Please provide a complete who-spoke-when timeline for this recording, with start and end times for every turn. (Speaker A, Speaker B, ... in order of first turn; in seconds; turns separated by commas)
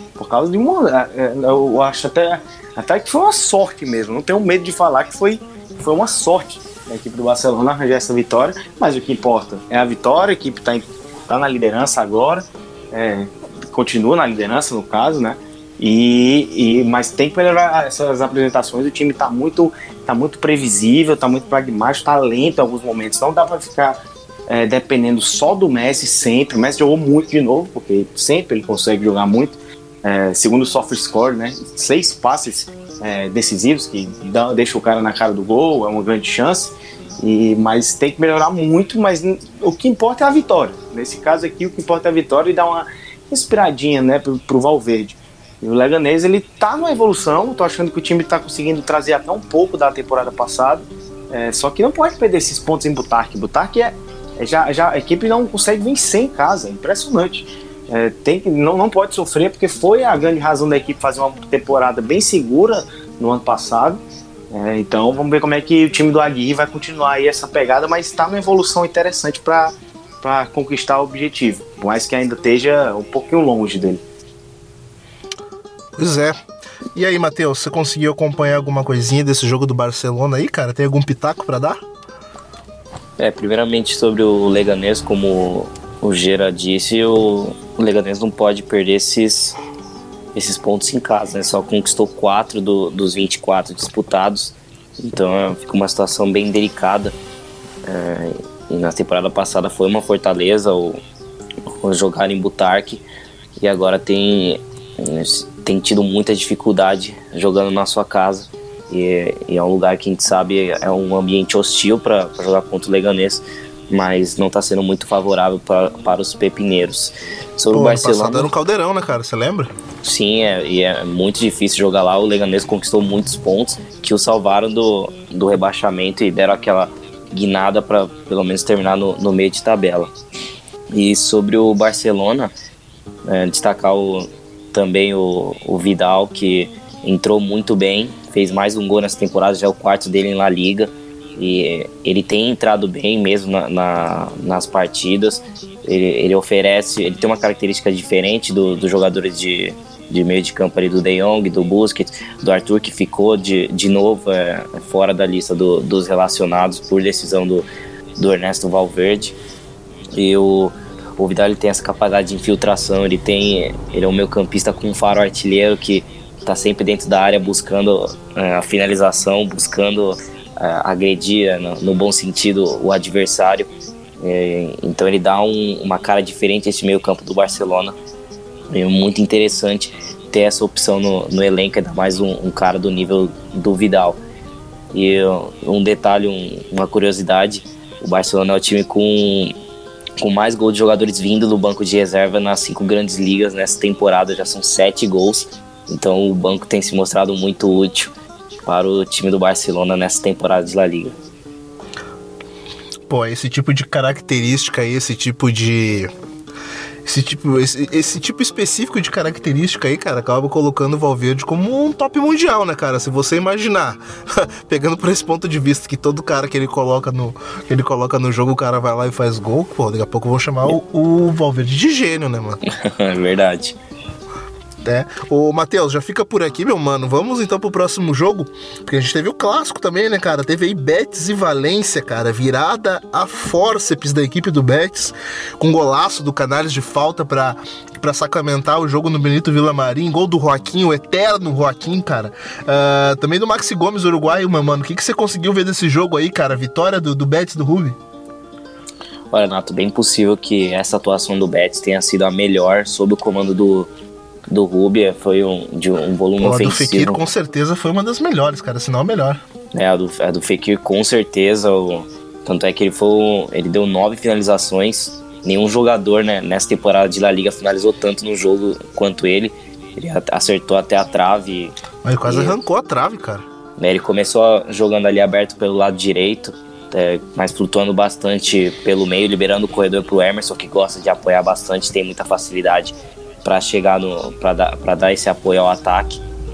Speaker A: 0.2-74.0, Speaker B: 76.0-76.4, Speaker B: 76.9-81.8, Speaker C: 83.2-89.6, Speaker C: 90.3-97.1, Speaker C: 97.9-101.0, Speaker C: 101.7-103.0, Speaker C: 103.6-118.5, Speaker B: 117.7-119.7, Speaker C: 120.0-130.1, Speaker C: 130.9-132.5, Speaker C: 133.2-157.7, Speaker C: 158.2-159.4, Speaker C: 160.1-173.7, Speaker C: 174.2-177.9, Speaker C: 178.7-184.2, Speaker C: 184.9-189.5, Speaker C: 190.2-198.1, Speaker C: 198.7-201.2, Speaker B: 203.1-206.1, Speaker B: 207.0-222.6, Speaker C: 222.7-223.8, Speaker B: 224.8-248.0, Speaker C: 249.3-253.9, Speaker C: 254.5-257.2, Speaker B: 256.4-259.4, Speaker C: 259.7-272.5, Speaker B: 272.0-273.4, Speaker C: 273.8-286.2